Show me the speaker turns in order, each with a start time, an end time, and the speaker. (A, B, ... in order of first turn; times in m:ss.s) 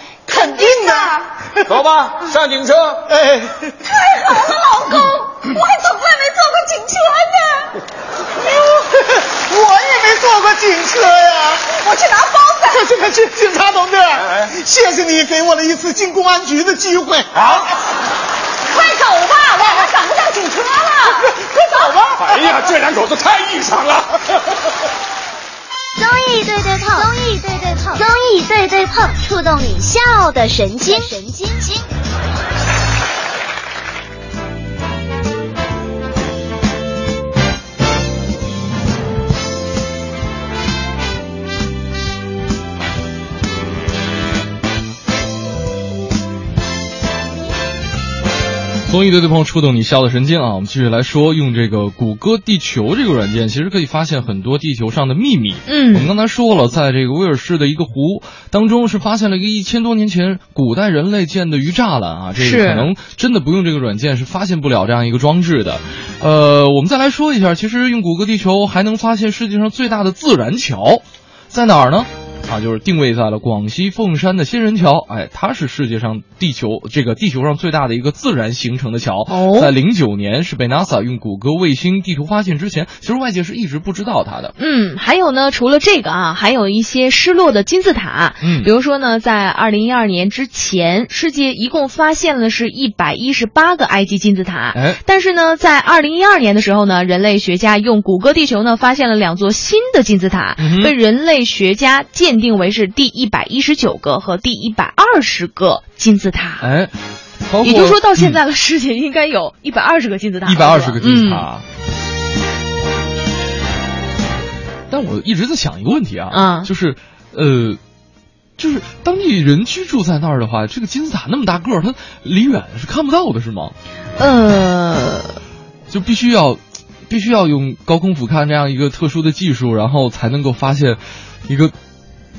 0:00.3-0:01.3 A
0:00.3-0:01.2 B
0:01.7-0:03.0 C
0:03.1-0:03.8 B
0:03.9-0:07.7 A
0:08.4-0:11.6 B
0:11.7-0:12.8 A
0:12.7-0:17.4 B
0:14.2-0:14.5 C
0:17.4-0:17.7 C
0:18.7-0:22.0 A
0:21.2-0:22.2 B
0:22.2-0:24.4 C
0:26.0-0:31.9 D
0:48.9-1:24.6 E
0:55.7-0:56.1 F
1:02.4-1:02.9 F
1:19.3-1:19.7 F
1:24.6-1:46.7 F
1:28.4-1:28.7 E
1:34.7-1:35.0 E
1:40.6-1:40.9 E
1:46.6-1:46.9 E
1:47.5-1:48.4 E
1:47.6-1:51.5 F
1:50.4-1:51.6 E
1:54.9-1:57.8 E
1:56.3-1:56.7 F
1:58.6-2:03.7 E
2:04.2-2:05.4 F
2:05.9-2:11.7 E